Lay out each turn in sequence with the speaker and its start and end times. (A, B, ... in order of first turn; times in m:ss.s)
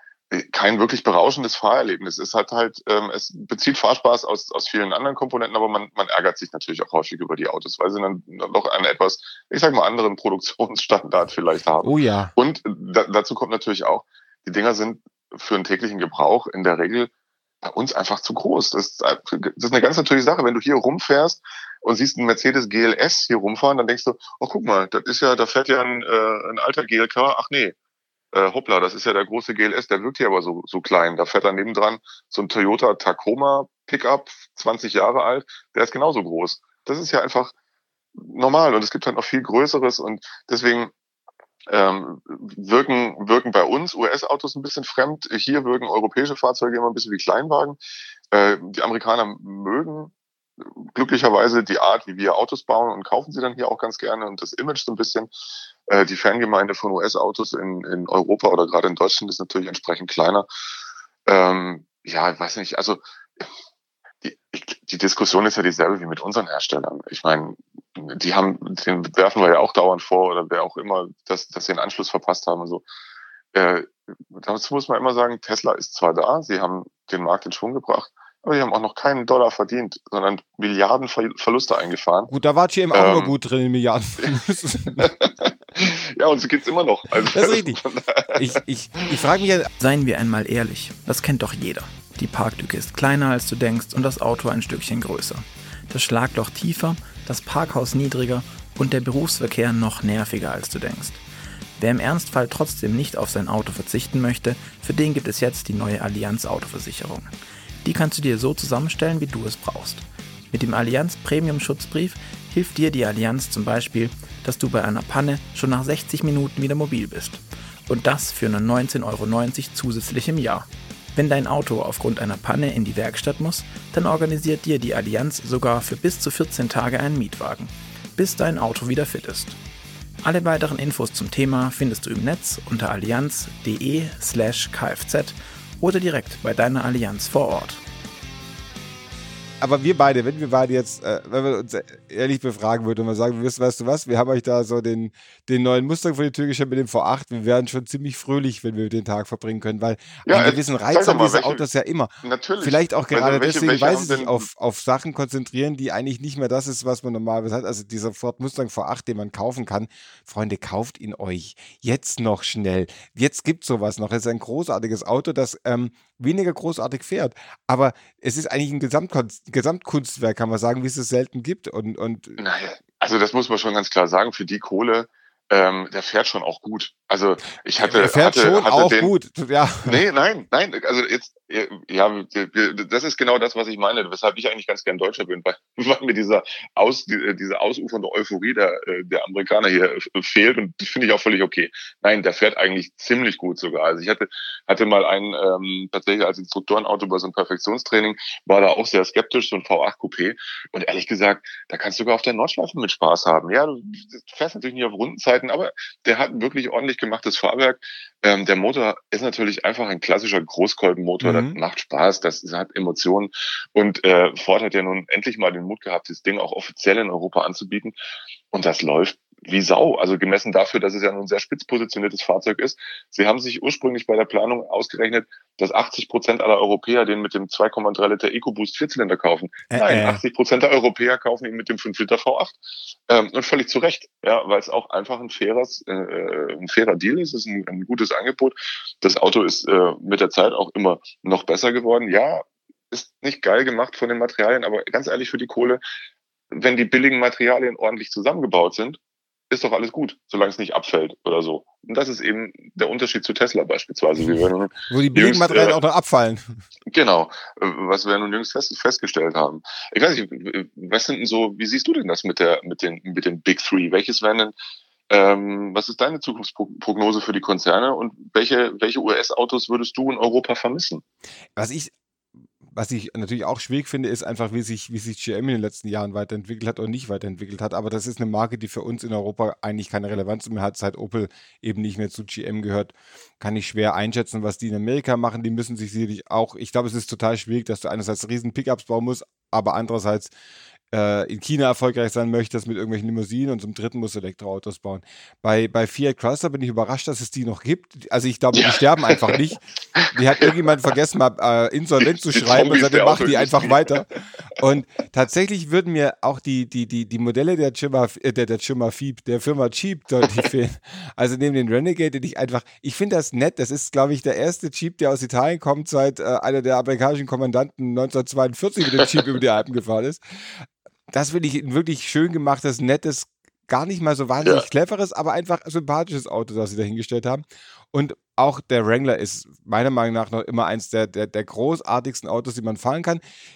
0:00.3-0:17.1 A
0:11.8-0:12.3 B
0:17.6-0:27.8 A
0:28.3-0:37.5 A
0:38.2-0:40.9 A
0:41.7-0:47.8 A
0:48.3-0:50.1 A
0:50.8-0:55.3 A
0:55.9-1:00.4 A
1:01.3-1:03.0 A
1:04.2-1:12.8 A
1:13.5-1:22.3 A
1:22.3-1:25.1 B
1:22.9-1:23.3 A
1:24.9-1:28.5 A
1:27.2-1:27.8 B
1:28.3-1:29.7 B
1:29.8-1:41.2 C
1:41.8-1:47.3 C
1:47.8-2:09.6 C
2:10.2-2:17.8 C
2:19.6-2:52.4 B
2:30.2-2:31.6 A
2:32.2-2:34.5 A
2:52.4-2:59.1 A
2:57.8-3:00.0 B
2:59.8-3:37.9 A
3:31.2-3:31.6 B
3:38.5-4:05.8 A
3:49.7-3:50.2 B
4:06.5-4:09.0 A
4:09.5-4:15.8 A
4:14.9-4:16.5 B
4:16.9-4:24.5 A
4:25.1-4:31.0 A
4:31.6-4:31.9 B
4:32.6-4:50.3 B
4:50.9-4:59.6 B
4:58.5-4:59.4 A
4:59.9-5:00.5 A
5:00.1-5:04.1 B
5:02.0-5:04.2 A
5:04.6-5:33.2 B